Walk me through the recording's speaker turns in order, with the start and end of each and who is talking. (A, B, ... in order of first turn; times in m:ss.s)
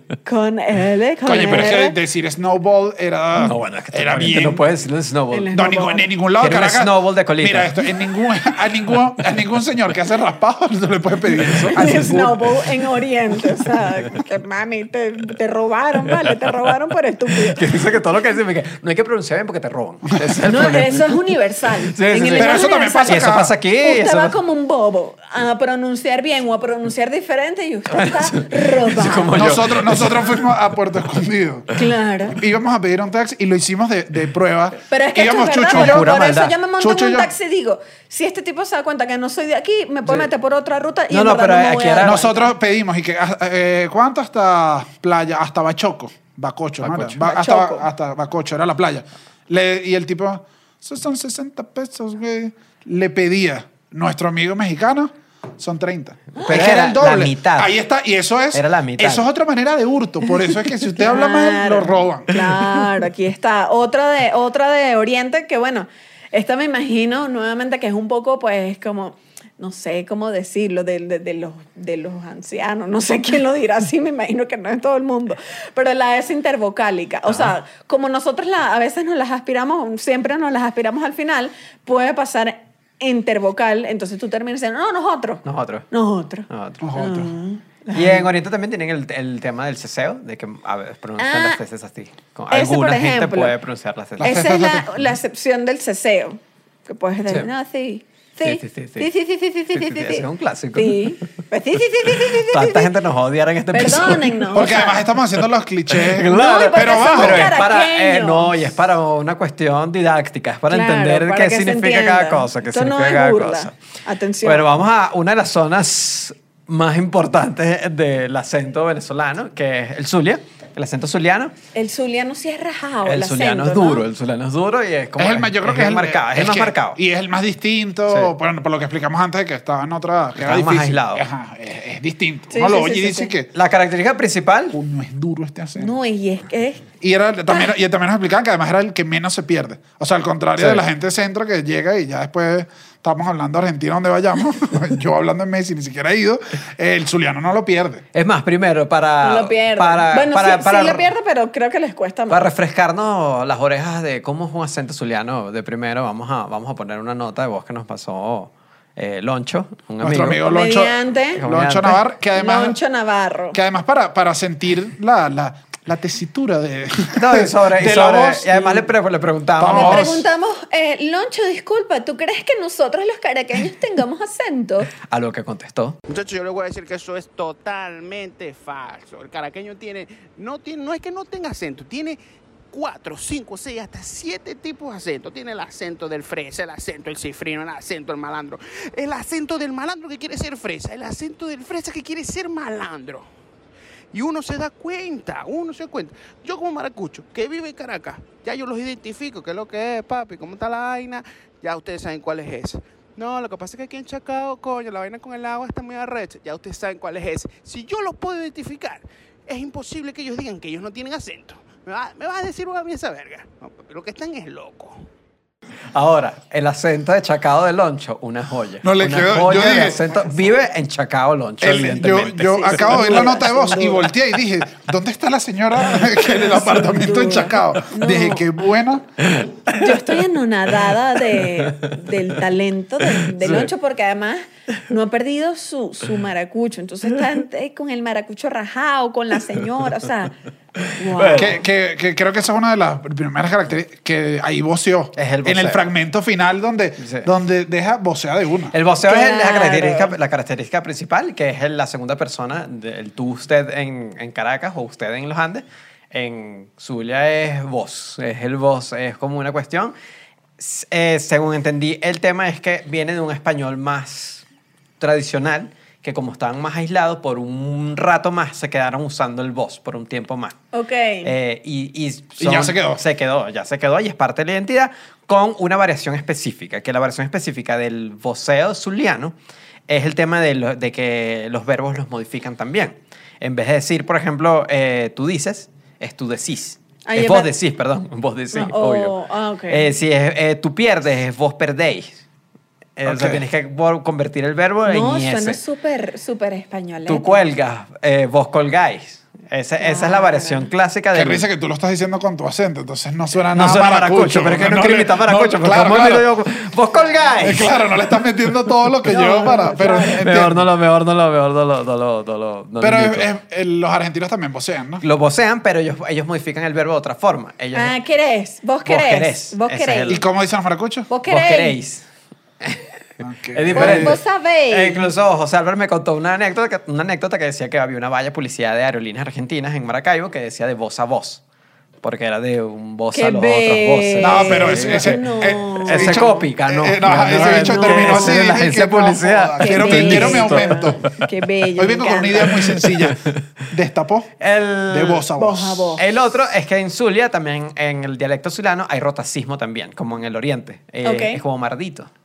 0:00.2-0:02.0 A
0:01.2-0:04.6 B
0:03.4-0:05.5 C
0:05.3-0:06.1 A
0:05.5-0:12.3 B
0:06.4-0:07.7 C
0:11.6-0:12.4 C
0:11.7-0:17.6 A
0:16.2-0:16.5 C
0:17.3-0:21.1 C
0:20.4-0:29.6 A
0:21.9-0:24.4 C
0:22.3-0:23.5 B
0:27.9-0:30.4 C
0:29.3-0:31.7 B
0:31.7-0:32.4 A
0:32.3-0:36.1 B
0:34.9-0:42.5 A
0:35.7-0:36.6 C
0:36.8-0:37.3 B
0:41.1-0:42.3 C
0:42.0-1:02.4 B
0:46.8-0:47.2 C
0:47.2-0:47.8 A
0:56.4-0:57.7 C
0:58.5-0:59.3 C
1:01.0-1:28.2 A
1:17.3-1:17.5 C
1:25.4-1:25.8 C
1:26.5-1:26.8 C
1:26.8-1:27.3 B
1:27.9-1:34.4 C
1:31.2-1:31.6 A
1:32.5-1:33.5 A
1:34.2-1:34.9 B
1:34.2-1:42.9 A
1:38.4-1:39.1 C
1:39.7-1:41.2 C
1:42.1-1:44.7 C
1:43.7-1:45.0 A
1:44.5-1:47.6 B
1:45.9-1:53.7 C
1:46.2-1:48.6 A
1:50.7-1:54.7 A
1:54.4-2:01.5 C
2:01.7-2:04.0 A
2:03.0-2:07.0 C
2:05.2-2:13.5 B
2:08.1-2:08.3 C
2:10.4-2:11.2 C
2:12.5-2:13.3 A
2:13.5-2:14.8 C
2:14.7-2:15.9 B
2:15.8-2:16.9 A
2:17.0-2:28.0 B
2:20.6-2:20.8 C
2:28.1-2:31.1 C
2:29.2-2:32.5 A
2:32.3-2:40.4 C
2:40.0-2:42.8 B
2:40.4-2:41.4 A
2:41.3-2:42.0 C
2:42.3-2:43.6 A
2:43.5-2:48.8 B
2:47.1-2:50.1 C
2:49.6-2:50.2 B
2:49.7-2:54.9 A
2:55.0-2:56.0 C
2:56.1-3:02.2 D
3:02.7-3:13.3 D
3:14.1-3:35.0 D
3:35.9-3:43.4 C
3:38.8-3:40.0 B
3:40.1-3:40.4 A
3:41.6-3:49.0 B
3:42.3-3:44.1 A
3:46.4-3:48.5 A
3:49.2-3:50.2 C
3:49.8-4:00.3 A
3:51.3-3:52.4 C
3:53.0-3:53.7 C
4:00.8-4:01.6 C
4:00.9-4:01.6 A
4:01.4-4:08.7 B
4:05.2-4:05.9 C
4:07.0-4:07.3 C
4:08.7-4:19.9 C
4:09.0-4:10.1 A
4:20.6-4:24.4 C
4:25.0-4:30.6 C
4:30.7-4:31.3 A
4:31.2-4:39.3 C
4:32.4-4:33.0 B
4:39.9-4:49.1 C
4:47.0-4:47.5 A
4:48.5-4:49.9 A
4:49.7-4:52.2 C
4:53.0-4:55.6 C
4:53.0-4:53.4 B
4:54.8-4:57.4 A
4:57.0-5:01.5 C
4:59.8-5:00.7 A
5:01.1-5:06.3 B
5:03.5-5:07.8 C
5:07.4-5:10.6 B
5:09.0-5:10.2 A
5:10.2-5:13.3 C
5:12.8-5:15.0 B
5:15.0-5:17.9 C
5:17.7-5:20.2 A
5:18.8-5:20.2 C
5:20.1-5:21.1 B
5:21.1-5:21.7 A
5:21.3-5:22.0 C
5:22.6-5:22.9 C
5:23.2-5:24.2 B
5:23.5-5:31.4 C
5:23.7-5:25.0 A
5:32.0-5:41.2 C
5:33.1-5:36.4 A
5:34.2-5:41.0 B
5:37.1-5:38.6 A
5:39.6-5:42.6 A
5:41.8-5:44.3 B
5:42.4-5:43.5 C
5:44.4-5:45.3 C
5:44.9-5:46.0 B
5:45.3-5:46.0 A
5:46.0-5:52.1 C
5:51.0-5:51.4 A